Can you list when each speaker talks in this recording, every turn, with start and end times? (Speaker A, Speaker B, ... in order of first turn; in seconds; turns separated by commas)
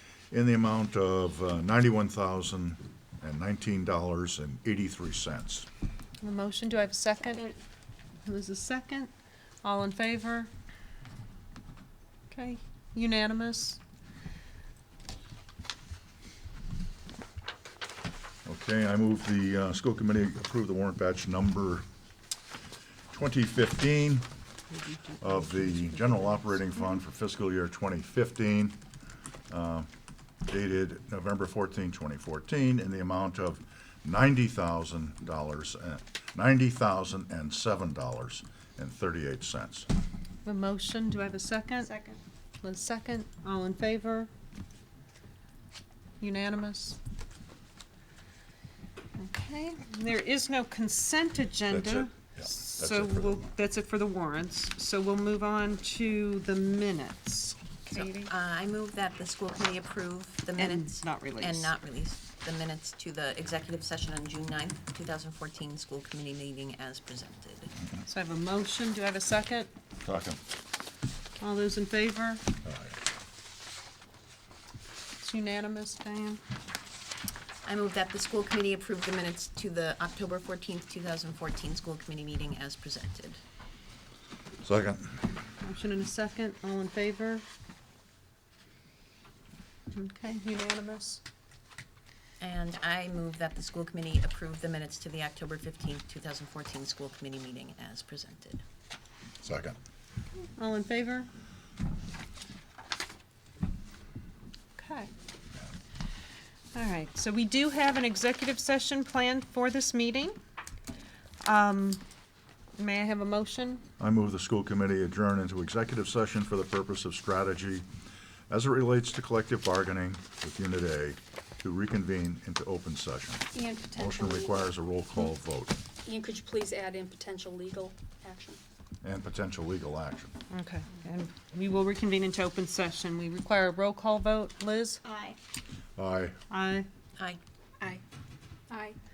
Speaker A: 0.3-5.7, Speaker B: 6.2-7.5, Speaker B: 8.2-9.1, Speaker B: 9.6-10.5, Speaker B: 12.3-13.8, Speaker A: 18.4-21.8, Speaker A: 23.1-24.2, Speaker B: 24.7-26.7, Speaker A: 25.2-28.8, Speaker A: 29.5-29.9, Speaker A: 30.5-39.9, Speaker B: 40.4-41.9, Speaker B: 42.6-44.3, Speaker B: 46.2-47.0, Speaker B: 49.2-58.3, Speaker A: 51.7-53.5, Speaker C: 57.9-67.7, Speaker B: 60.6-61.7, Speaker B: 68.0-69.7, Speaker A: 70.0-70.4, Speaker B: 71.4-72.4, Speaker A: 72.6-73.0, Speaker B: 75.2-76.4, Speaker C: 77.6-83.4, Speaker A: 84.6-85.1, Speaker B: 85.6-87.4, Speaker B: 89.9-91.2, Speaker C: 92.4-98.6, Speaker A: 99.4-99.8, Speaker B: 100.3-101.3, Speaker B: 104.8-105.1, Speaker B: 106.7-110.4, Speaker B: 111.4-112.0, Speaker B: 112.8-113.8, Speaker A: 114.0-117.8, Speaker A: 118.5-125.8, Speaker D: 123.5-124.7, Speaker D: 126.0-128.6, Speaker A: 129.0-130.3, Speaker B: 130.5-135.0, Speaker D: 135.0-135.3, Speaker A: 136.0-136.3, Speaker B: 136.5-136.9, Speaker D: 138.7-139.0